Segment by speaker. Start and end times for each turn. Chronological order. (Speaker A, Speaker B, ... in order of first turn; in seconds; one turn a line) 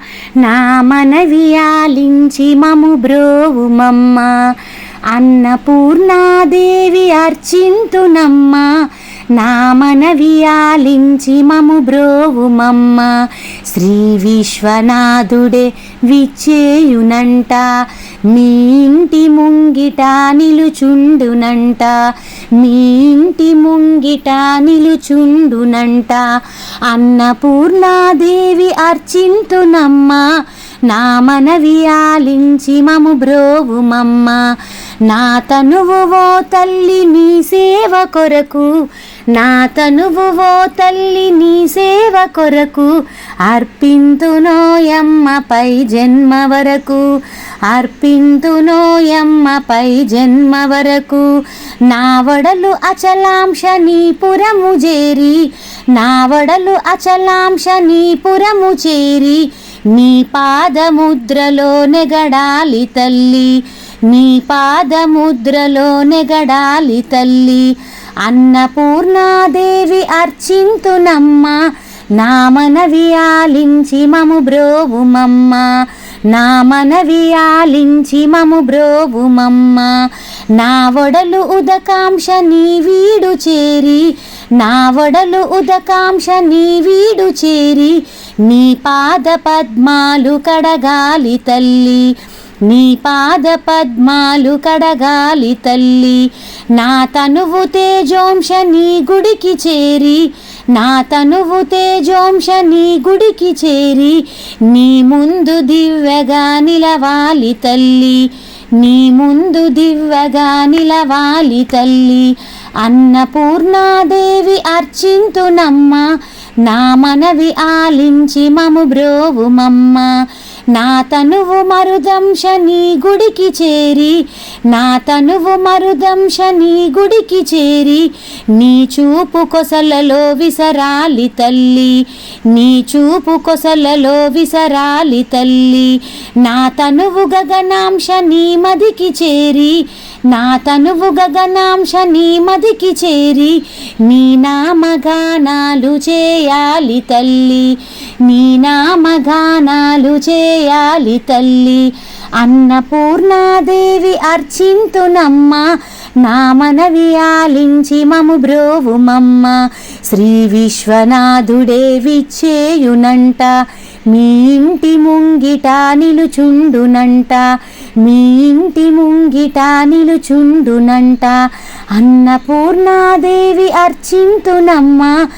Speaker A: 0.4-4.5
Speaker A: 5.1-8.7
Speaker A: 9.3-13.1
Speaker A: 13.7-22.0
Speaker A: 22.6-26.2
Speaker A: 26.9-30.3
Speaker A: 30.9-34.4
Speaker A: 35.0-38.7
Speaker A: 39.3-42.9
Speaker A: 43.4-47.0
Speaker A: 47.7-51.3
Speaker A: 51.9-71.6
Speaker A: 72.2-75.7
Speaker A: 76.3-80.0
Speaker A: 80.5-92.1
Speaker A: 92.7-116.1
Speaker A: 116.6-120.1
Speaker A: 120.7-155.7
Speaker A: 156.2-163.6
Speaker A: 164.1-167.4
Speaker A: 168.0-171.3
Speaker A: 171.9-175.1